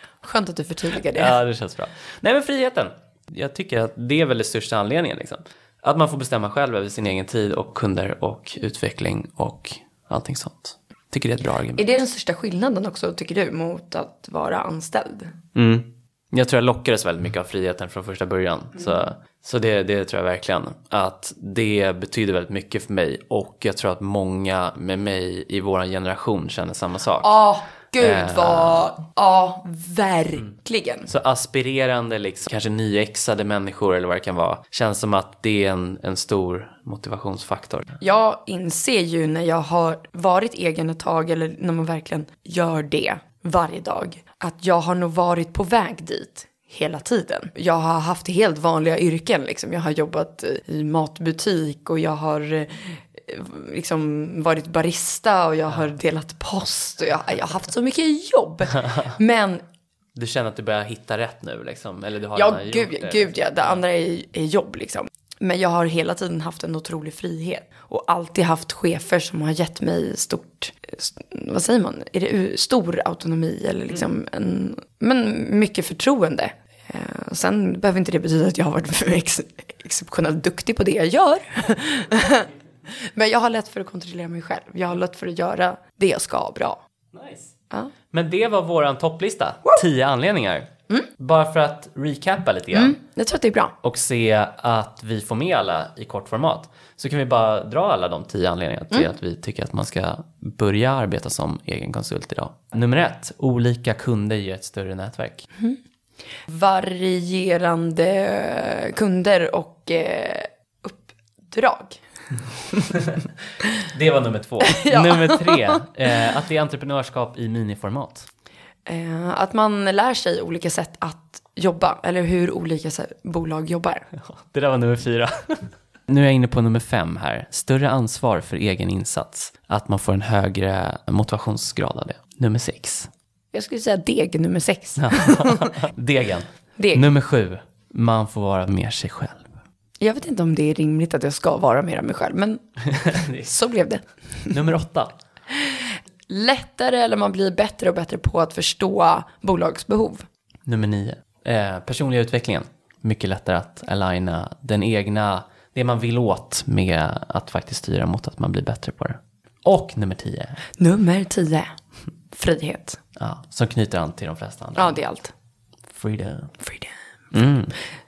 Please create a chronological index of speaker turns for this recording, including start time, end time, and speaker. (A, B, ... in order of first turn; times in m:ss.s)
0:00.2-0:01.4 A
0:01.1-0:11.8 B
0:11.8-0:15.3 A
0:15.5-0:27.4 B
0:27.2-0:31.1 A
0:28.0-0:28.9 B
0:31.1-0:38.0 B
0:38.0-0:59.6 A
1:00.1-1:03.8 B
1:02.3-1:22.5 A
1:23.1-1:26.8 A
1:27.1-1:27.5 B
1:28.1-1:33.0 B
1:32.7-1:33.7 A
1:33.8-1:45.5 B
1:46.5-1:52.0 A
1:52.9-1:53.3 B
1:53.8-1:58.3 B
1:54.6-1:55.8 A
1:58.9-2:04.0 A
2:04.2-2:13.1 B
2:13.5-2:15.7 A
2:15.0-2:19.5 B
2:16.8-2:17.0 A
2:20.0-2:24.5 A
2:22.9-2:23.5 B
2:24.5-2:25.1 B
2:25.5-2:30.2 A
2:30.6-2:40.6 B
2:40.8-2:41.8 A
2:42.3-2:43.0 A
2:43.2-2:45.0 B
2:44.8-2:45.3 A
2:45.9-2:46.6 B
2:46.6-2:46.9 A
2:47.3-2:47.7 B